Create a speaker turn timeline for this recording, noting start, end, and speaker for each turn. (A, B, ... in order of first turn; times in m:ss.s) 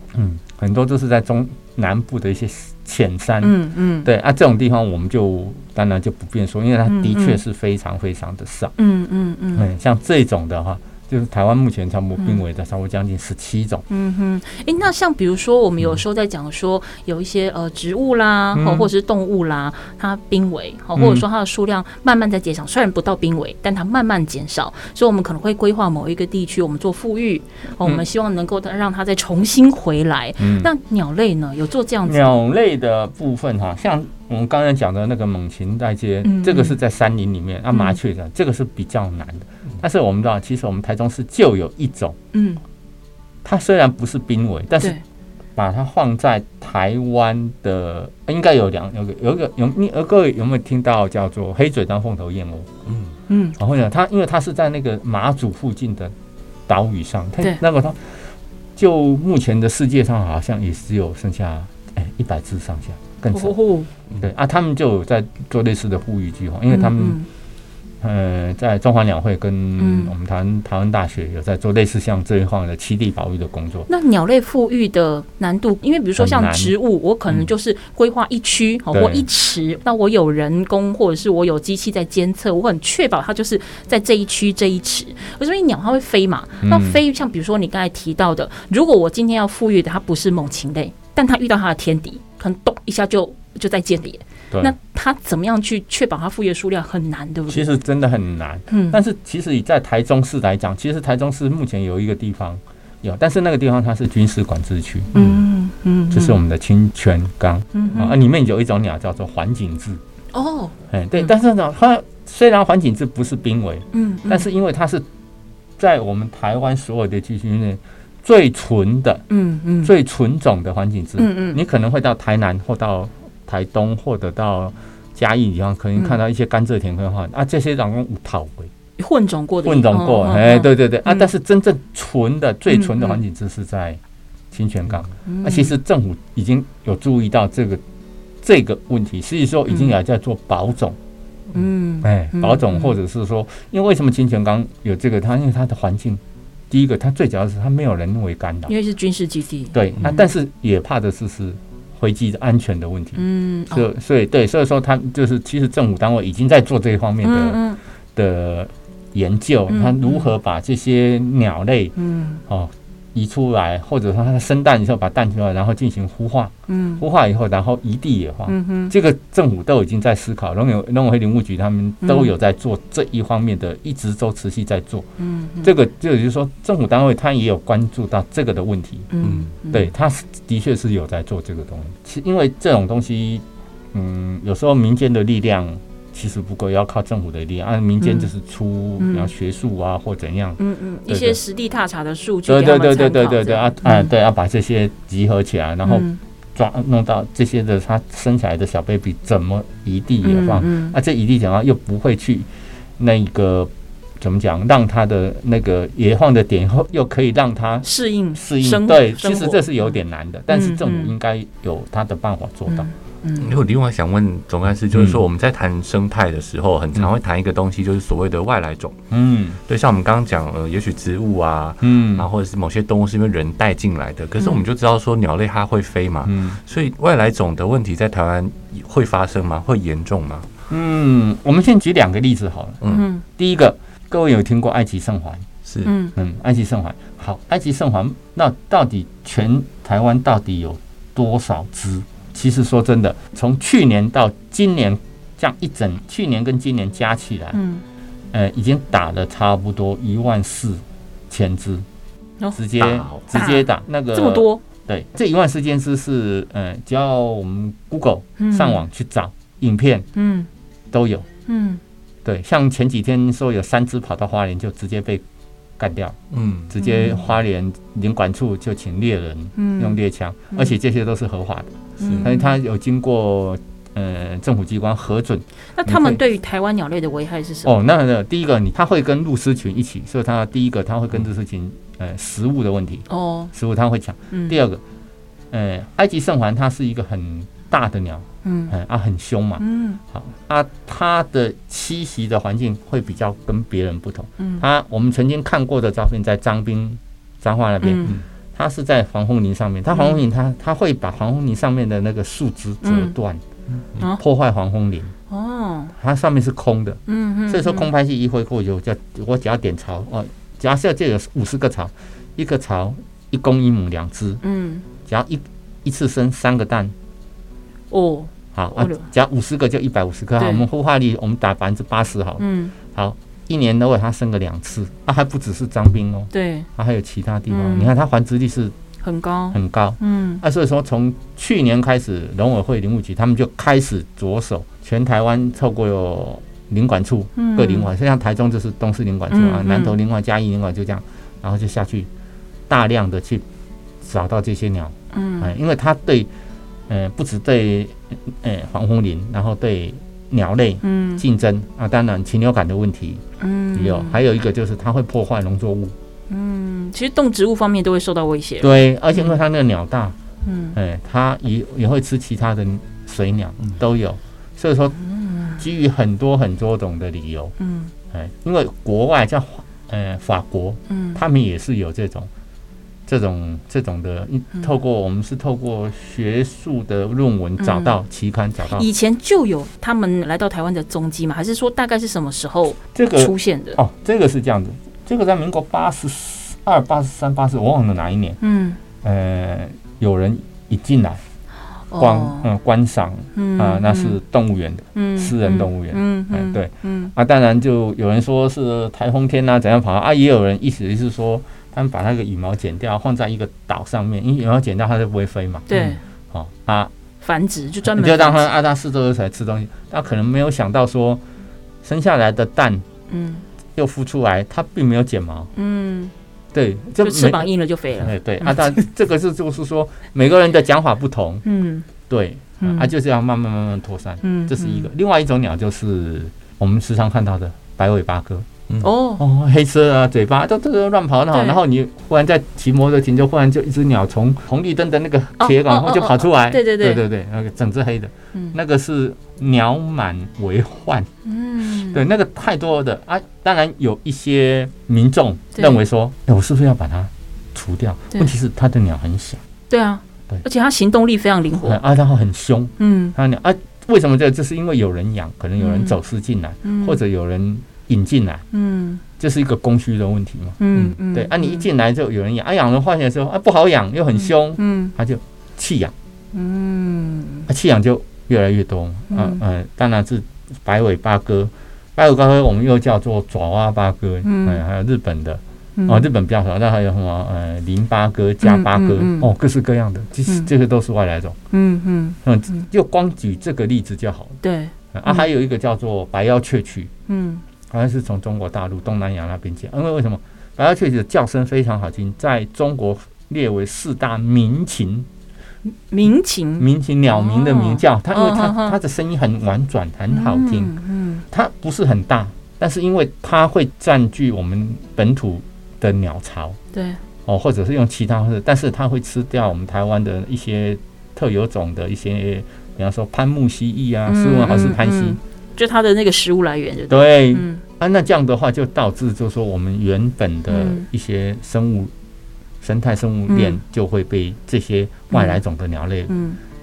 0:00.1-0:08.7 A
0:03.4-0:04.1 B
0:06.9-0:07.4 B
0:08.8-0:09.7 B
0:09.6-0:13.8 A
0:13.9-0:32.4 B
0:18.5-0:18.9 A
0:21.0-0:21.2 A
0:30.4-0:30.7 A
0:32.0-0:42.2 A
0:36.2-0:36.7 B
0:37.7-0:38.0 B
0:42.3-0:42.6 B
0:43.4-0:45.0 A
0:45.6-0:52.7 A
0:53.3-0:53.6 B
0:53.6-0:56.1 A
0:56.7-1:03.6 A
1:03.3-1:03.9 B
1:04.2-1:07.2 A
1:06.7-1:07.3 B
1:08.0-1:13.9 A
1:09.8-1:10.1 B
1:13.9-1:37.6 B
1:16.2-1:16.7 A
1:18.9-1:19.2 A
1:26.6-1:27.0 A
1:37.5-1:45.1 A
1:38.7-1:39.0 B
1:45.1-1:46.4 B
1:46.1-1:50.0 A
1:47.7-1:48.1 B
1:50.3-1:50.8 B
1:50.9-1:55.0 A
1:53.9-1:54.5 B
1:55.8-1:59.2 A
1:59.3-1:59.9 B
1:59.8-2:08.7 A
2:01.2-2:01.6 B
2:09.0-2:11.3 B
2:09.6-2:14.0 A
2:12.7-2:13.2 B
2:14.5-2:17.8 A
2:15.2-2:15.8 B
2:18.4-2:21.0 A
2:21.5-2:22.9 B
2:22.0-2:28.7 A
2:28.7-2:30.2 B
2:29.7-2:37.6 A
2:33.2-2:33.9 B
2:37.2-2:37.8 B
2:38.1-2:41.9 A
2:39.7-2:40.3 B
2:42.0-2:42.4 B
2:42.5-2:55.0 A
2:46.7-2:47.0 B
2:48.5-2:48.9 B
2:52.0-2:52.3 B
2:55.2-2:55.7 B
2:55.6-2:59.1 A
2:59.1-2:59.9 B
2:59.2-2:59.5 C
2:59.7-3:11.4 A
3:08.0-3:08.3 B
3:09.0-3:09.3 B
3:10.6-3:14.1 B
3:12.5-3:32.9 A
3:15.8-3:16.2 B
3:20.2-3:20.9 B
3:27.8-3:29.7 B
3:30.5-3:31.1 B
3:32.7-3:33.5 B
3:33.4-3:39.0 C
3:34.9-3:35.2 A
3:39.1-3:39.6 A
3:39.7-3:50.5 C
3:41.8-3:42.3 A
3:44.4-3:44.6 B
3:46.2-3:46.6 A
3:50.7-3:55.4 A
3:52.8-3:53.1 C
3:52.9-3:53.2 B
3:55.6-3:55.9 C
3:55.8-3:56.1 B
3:56.2-4:07.6 A
4:07.5-4:07.8 B
4:08.3-4:11.8 A
4:12.5-4:20.1 A
4:12.8-4:13.2 C
4:13.3-4:14.6 B
4:18.4-4:18.8 B
4:20.1-4:20.5 B
4:20.9-4:21.3 A
4:21.5-4:21.8 B
4:22.2-4:25.2 A
4:25.8-4:26.2 A
4:26.3-4:26.7 C
4:26.7-4:36.2 A
4:26.8-4:27.2 B
4:29.6-4:30.0 B
4:32.0-4:32.5 B
4:32.0-4:32.3 C
4:35.8-4:37.7 B
4:37.6-4:44.8 A
4:43.1-4:43.5 B
4:44.3-4:44.6 B
4:45.5-5:03.4 A
4:48.4-4:48.7 B
4:49.6-4:50.0 B
4:54.4-4:54.6 B
4:57.8-4:58.2 B
4:59.9-5:00.2 B
5:02.8-5:03.1 B
5:03.7-5:04.0 C
5:04.0-5:05.1 A
5:05.3-5:05.9 B
5:06.0-5:14.4 A
5:07.1-5:07.9 B
5:14.4-5:14.8 B
5:15.0-5:16.9 A
5:17.9-5:19.0 B
5:18.5-5:28.7 A
5:20.4-5:20.6 B
5:22.4-5:22.7 B
5:26.3-5:26.7 B
5:27.5-5:27.9 B
5:29.0-5:30.4 B
5:29.5-5:42.1 A
5:37.4-5:37.9 B
5:39.3-5:39.9 B
5:42.7-5:43.4 A
5:44.0-5:46.3 A
5:45.1-5:45.5 B
5:46.9-5:53.2 A
5:50.8-5:51.2 B
5:53.4-5:54.2 B
5:53.7-5:56.0 A
5:56.3-5:59.4 B
5:58.6-6:00.2 A
6:00.4-6:00.8 B
6:00.7-6:05.0 A
6:05.0-6:05.6 B
6:05.6-6:07.5 A
6:07.6-6:07.9 B
6:08.1-6:12.3 A
6:10.9-6:11.2 B
6:13.0-6:18.9 A
6:17.6-6:17.9 B
6:18.7-6:23.8 B
6:22.9-6:28.4 A
6:28.4-6:28.8 B
6:29.0-6:31.2 A
6:31.9-6:32.5 B
6:32.0-6:45.7 A
6:33.3-6:34.2 B
6:34.9-6:37.1 B
6:45.7-6:46.0 B
6:46.3-6:46.9 A
6:47.2-6:48.4 B
6:47.8-6:51.2 A
6:51.8-6:52.8 A
6:53.1-6:53.4 B
6:53.8-6:55.5 A
6:55.6-6:56.1 B
6:56.5-6:57.5 A
6:57.0-6:58.8 B
6:58.0-7:01.4 A
7:01.4-7:01.8 B
7:02.1-7:08.5 A
7:02.6-7:02.9 B
7:04.2-7:04.9 B
7:08.8-7:09.2 B
7:09.2-7:21.1 A
7:11.3-7:11.6 B
7:15.4-7:17.0 B
7:21.2-7:22.0 B
7:21.7-7:29.4 A
7:29.7-7:31.8 B
7:31.6-7:38.4 A
7:32.8-7:33.1 B
7:35.6-7:36.0 B
7:36.6-7:37.0 B
7:38.5-7:39.0 B
7:39.2-7:40.6 A
7:40.6-7:41.7 B
7:41.1-7:45.9 A
7:44.2-7:44.9 B
7:46.3-7:47.5 B
7:47.5-8:01.4 A
7:49.1-7:49.4 B
7:54.2-7:54.6 B
7:55.8-7:56.1 B
7:58.4-7:59.3 B
8:01.5-8:02.6 B
8:02.2-8:04.4 A
8:04.4-8:05.3 B
8:04.9-8:06.9 A
8:07.1-8:07.4 B
8:07.7-8:15.1 A
8:15.6-8:18.8 B
8:16.6-8:20.7 A
8:20.1-8:21.2 B
8:21.3-8:26.6 A
8:26.7-8:27.0 B
8:27.2-8:35.2 A
8:34.1-8:37.6 B
8:36.9-8:41.9 A
8:40.5-8:40.8 B
8:42.6-8:46.1 A
8:43.3-8:43.6 B
8:45.1-8:45.4 B
8:46.1-8:46.4 B